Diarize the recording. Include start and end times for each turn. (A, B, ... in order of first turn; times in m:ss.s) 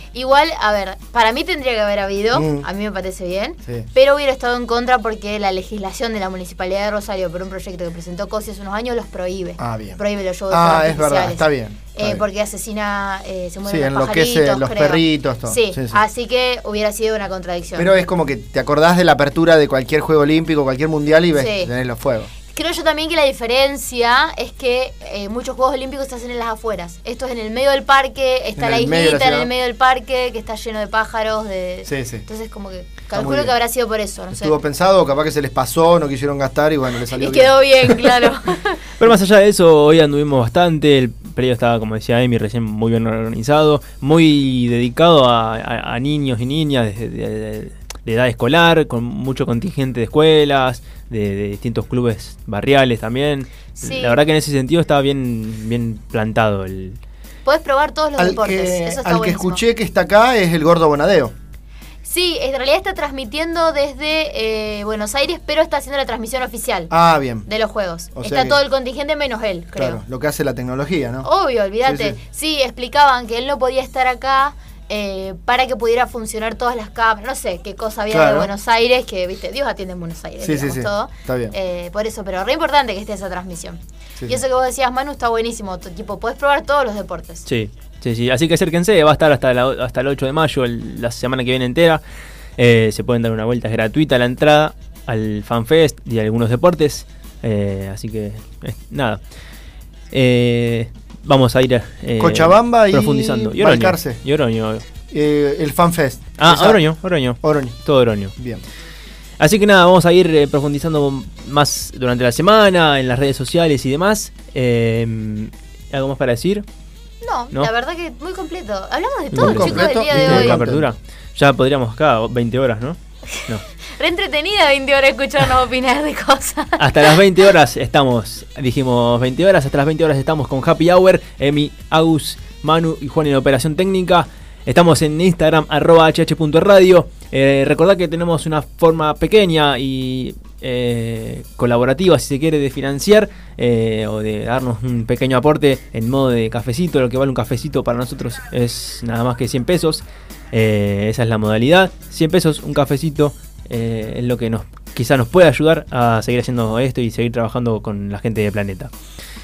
0:00.1-0:17.9 A
0:02.3-0:02.6 B
0:09.6-0:12.2 B
0:13.6-0:16.0 B
0:17.7-0:22.3 B
0:21.3-0:21.7 A
0:22.5-0:34.6 A
0:28.6-0:29.5 B
0:31.8-0:32.2 B
0:33.1-0:33.5 B
0:34.3-0:37.6 B
0:37.1-0:38.8 A
0:39.0-0:57.0 C
0:53.7-0:54.2 A
0:57.4-0:59.6 A
0:58.2-1:01.3 B
1:02.0-1:06.9 A
1:06.9-1:07.5 B
1:07.4-1:10.0 A
1:08.1-1:08.6 B
1:09.8-1:11.3 B
1:11.2-1:27.4 A
1:11.8-1:12.2 B
1:18.1-1:18.5 B
1:20.4-1:21.5 B
1:27.4-1:32.0 C
1:32.6-1:39.2 C
1:40.1-1:44.8 C
1:42.2-1:44.2 B
1:45.1-1:46.9 B
1:46.4-1:48.3 C
1:47.4-1:47.8 B
1:48.4-1:48.6 B
1:49.4-1:56.6 C
1:57.2-2:00.6 A
1:59.3-2:03.6 C
1:59.4-2:00.9 B
2:04.0-2:06.8 A
2:06.8-2:38.9 C